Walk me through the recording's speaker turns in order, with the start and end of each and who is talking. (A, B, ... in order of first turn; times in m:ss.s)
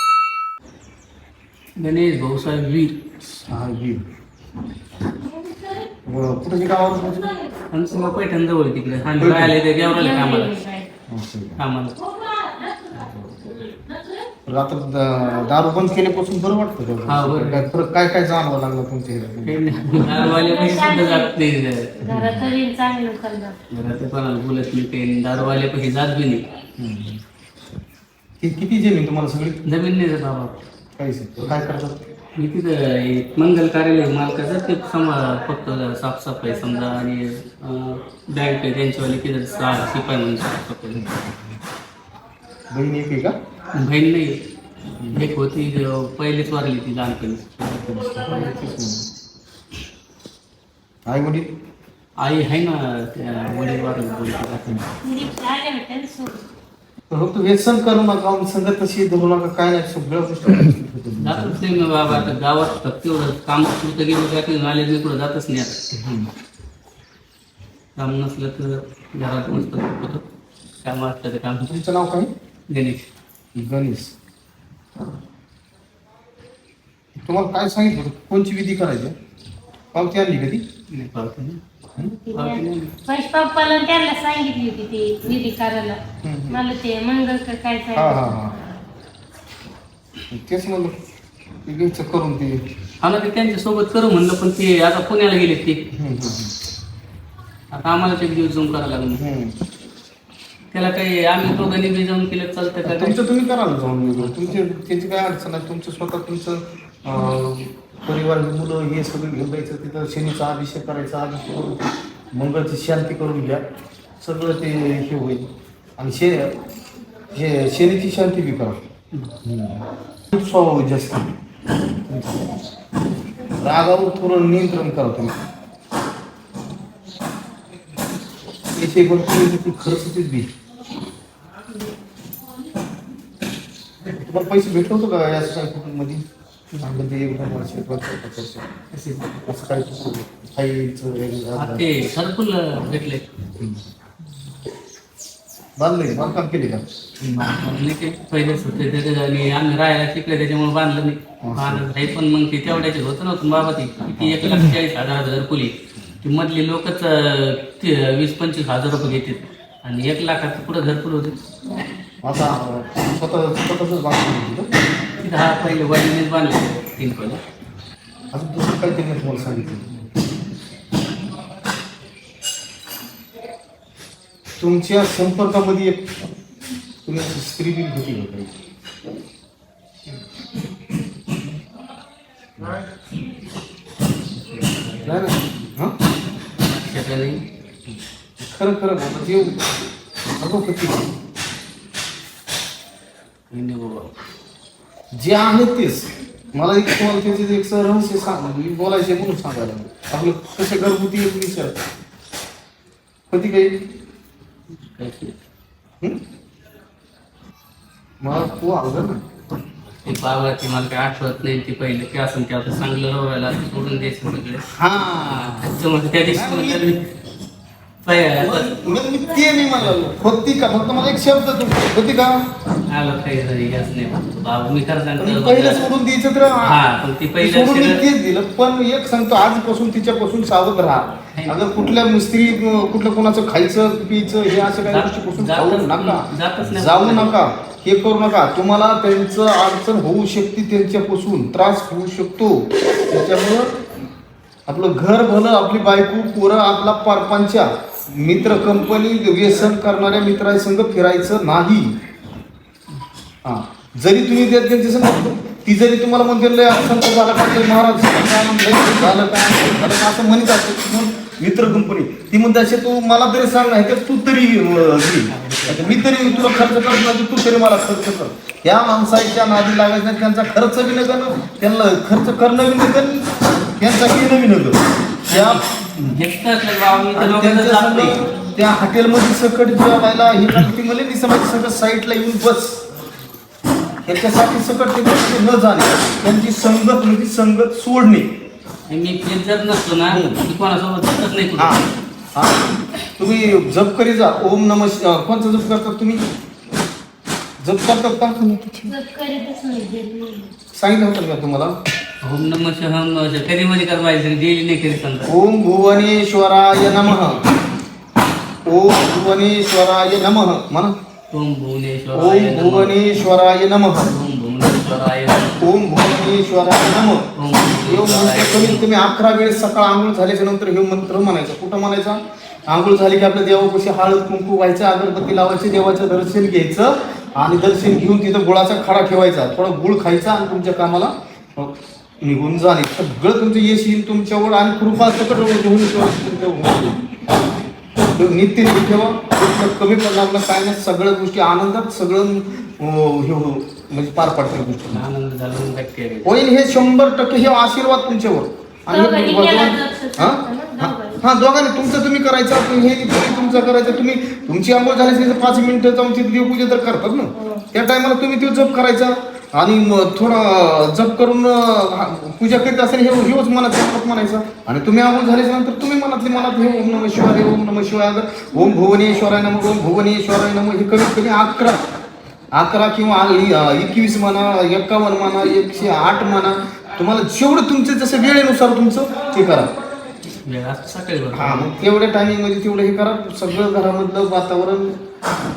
0:01.8-0:03.0 A
0:03.3-0:04.0 B
0:06.1-0:07.3 B
0:07.7-0:10.6 A
0:09.2-0:09.6 B
0:09.8-0:10.9 C
0:11.1-0:11.6 B
0:11.6-0:12.0 A
0:12.9-0:13.3 A
0:14.5-0:20.0 B
0:17.1-0:17.7 A
0:19.4-0:21.9 A
0:20.0-0:21.3 C
0:22.0-0:23.6 C
0:22.1-0:22.5 B
0:23.7-0:26.4 A
0:26.8-0:27.2 B
0:28.4-0:29.6 B
0:29.6-0:30.6 A
0:31.0-0:32.0 B
0:32.4-0:41.1 A
0:40.9-0:41.4 B
0:42.7-0:43.3 B
0:43.7-0:44.4 A
0:45.0-0:45.3 B
0:45.1-0:47.6 A
0:47.6-0:49.0 B
0:51.1-0:51.5 B
0:52.2-0:54.9 A
0:55.0-0:56.4 C
0:57.1-1:02.3 B
1:01.2-1:05.8 A
1:06.0-1:06.3 B
1:08.0-1:10.2 A
1:10.8-1:11.8 A
1:11.7-1:12.3 B
1:12.7-1:13.1 A
1:13.6-1:14.1 B
1:17.2-1:19.2 B
1:19.9-1:20.6 B
1:20.9-1:21.6 A
1:22.3-1:26.0 C
1:22.3-1:22.9 A
1:26.2-1:26.6 B
1:26.5-1:28.4 C
1:28.0-1:28.6 B
1:30.3-1:31.0 B
1:31.7-1:32.6 B
1:33.0-1:35.8 A
1:35.9-1:36.6 B
1:37.7-1:39.2 A
1:39.2-1:39.6 B
1:40.7-1:43.2 A
1:42.8-1:53.6 B
1:44.1-1:44.5 A
1:54.2-1:56.6 B
1:57.3-1:58.8 B
1:59.4-2:01.3 B
2:02.1-2:02.5 B
2:03.6-2:05.4 B
2:08.8-2:10.5 B
2:14.1-2:16.2 B
2:16.8-2:18.7 B
2:18.9-2:19.4 A
2:19.5-2:21.9 B
2:21.6-2:23.3 A
2:25.8-2:27.6 B
2:27.6-2:41.4 A
2:31.4-2:31.9 B
2:34.2-2:34.6 B
2:42.2-2:44.7 B
2:45.2-2:47.4 A
2:48.3-2:50.0 B
2:54.6-2:56.0 B
2:57.0-2:58.5 B
3:04.5-3:05.7 A
3:05.0-3:06.0 B
3:06.6-3:07.4 A
3:08.4-3:09.6 B
3:10.4-3:11.1 B
3:13.5-3:14.1 A
3:15.1-3:21.8 B
3:23.3-3:23.8 B
3:24.8-3:25.4 A
3:28.2-3:29.2 B
3:30.0-3:34.6 A
3:34.8-3:36.9 B
3:35.2-3:37.1 A
3:38.0-3:38.8 A
3:38.4-3:42.4 B
3:42.9-3:45.9 A
3:45.2-3:46.9 B
3:46.6-3:48.1 A
3:47.4-4:03.7 B
3:51.4-3:51.6 A
3:54.9-3:57.4 A
4:04.7-4:12.0 B
4:13.4-4:35.6 B
4:25.3-4:26.6 A
4:35.3-4:38.3 A
4:37.1-4:42.8 B
4:44.0-4:48.3 B
4:48.9-4:51.9 A
4:50.1-4:50.4 B
4:51.6-4:52.6 B
4:53.2-4:56.2 B
4:57.6-4:58.8 B
4:58.8-5:00.5 C
5:00.7-5:01.8 B
5:02.2-5:05.3 A
5:05.3-5:07.4 B
5:08.6-5:11.0 B
5:11.3-5:13.2 A
5:12.1-5:14.2 B
5:14.0-5:15.6 A
5:15.6-5:37.0 B
5:17.4-5:18.9 A
5:38.0-5:45.0 B
5:44.9-5:46.4 A
5:46.2-6:11.8 B
5:48.9-5:51.2 C
5:57.4-5:57.7 C
6:12.5-6:19.7 B
6:20.3-6:21.7 A
6:21.3-6:25.0 B